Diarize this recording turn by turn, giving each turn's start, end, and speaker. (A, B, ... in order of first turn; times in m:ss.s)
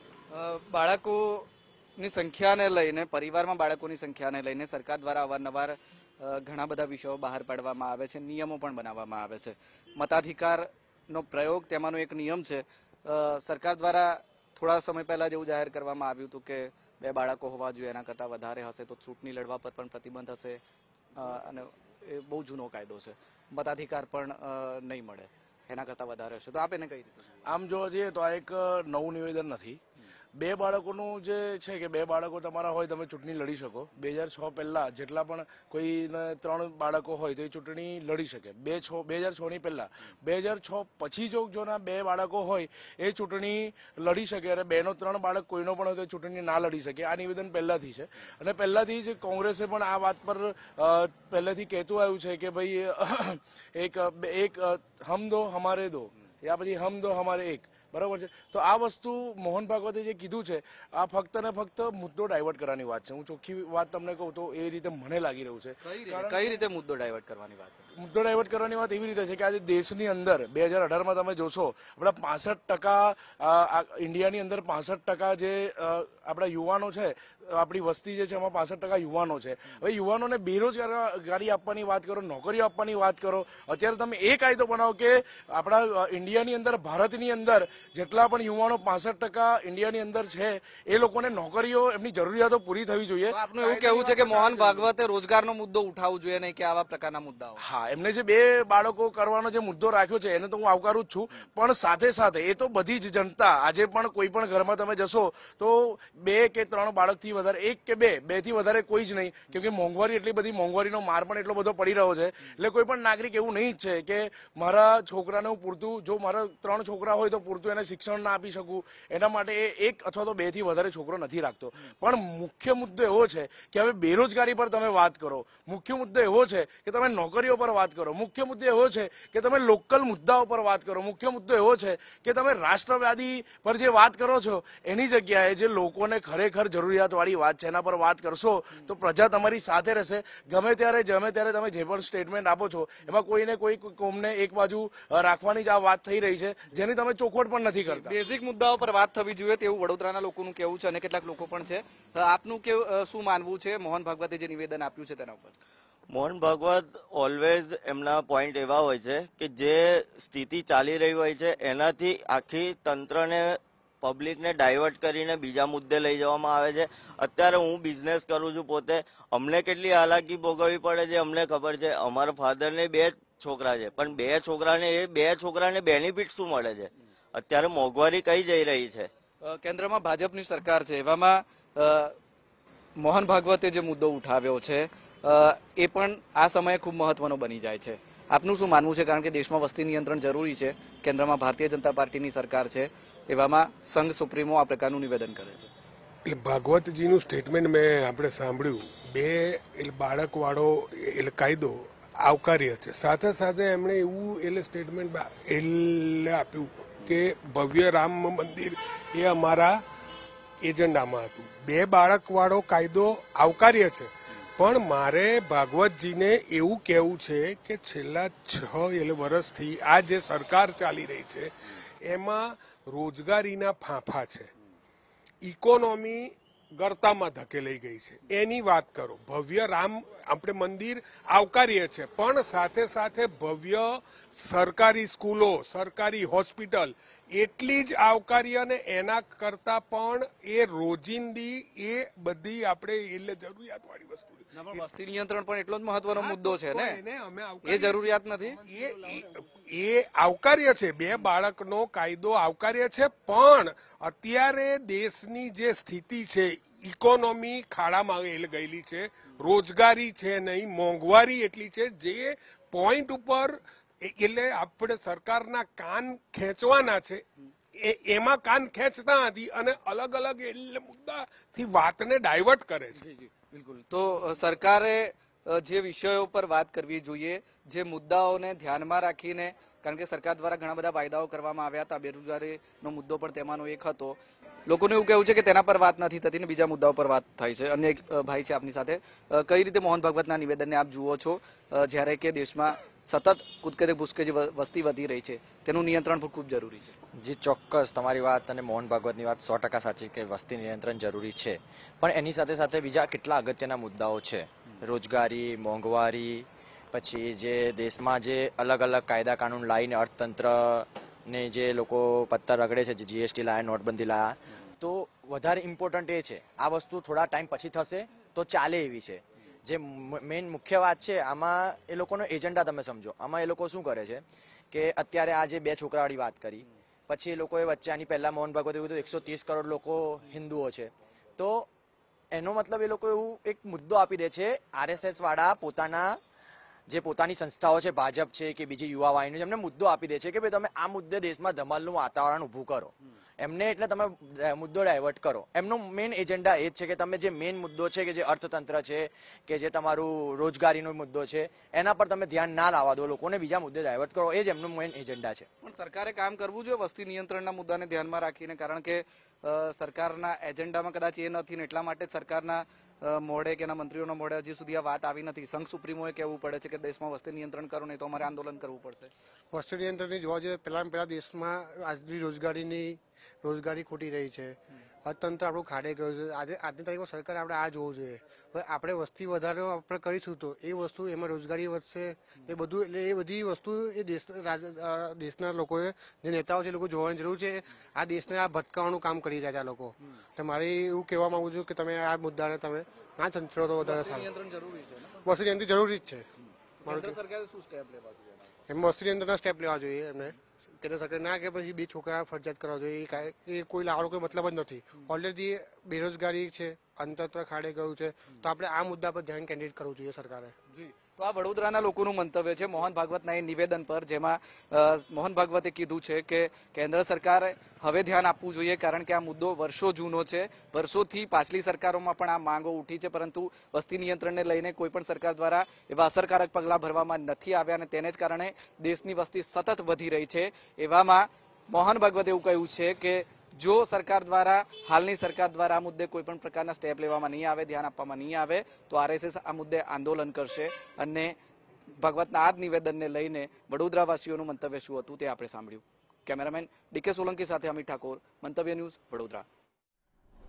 0:00.3-0:20.6 A
0:21.2-0:27.2 A
0:27.5-0:29.8 B
0:30.4-1:06.6 B
1:05.8-1:07.8 A
1:08.0-1:34.9 B
1:33.3-1:37.6 A
1:37.6-2:28.2 B
2:27.9-2:35.6 A
2:36.1-2:59.1 C
2:59.4-3:02.2 A
3:03.0-3:15.7 A
3:16.3-3:29.8 D
3:30.6-3:41.5 D
3:42.1-3:44.5 D
3:45.4-4:04.8 D
4:04.5-4:07.0 A
4:06.2-4:08.0 D
4:07.6-4:08.6 A
4:08.7-4:27.2 D
4:27.8-4:33.0 D
4:33.0-4:56.9 A
4:57.2-5:31.7 E
5:32.3-5:36.2 E
5:36.9-5:55.5 E
5:55.6-6:09.1 A
6:09.5-6:34.3 F
6:33.8-6:35.2 A
6:35.2-6:36.3 F
6:36.8-6:37.2 F
6:36.8-6:38.3 A
6:38.7-6:50.5 F
6:50.7-7:21.4 A
7:22.0-7:29.4 A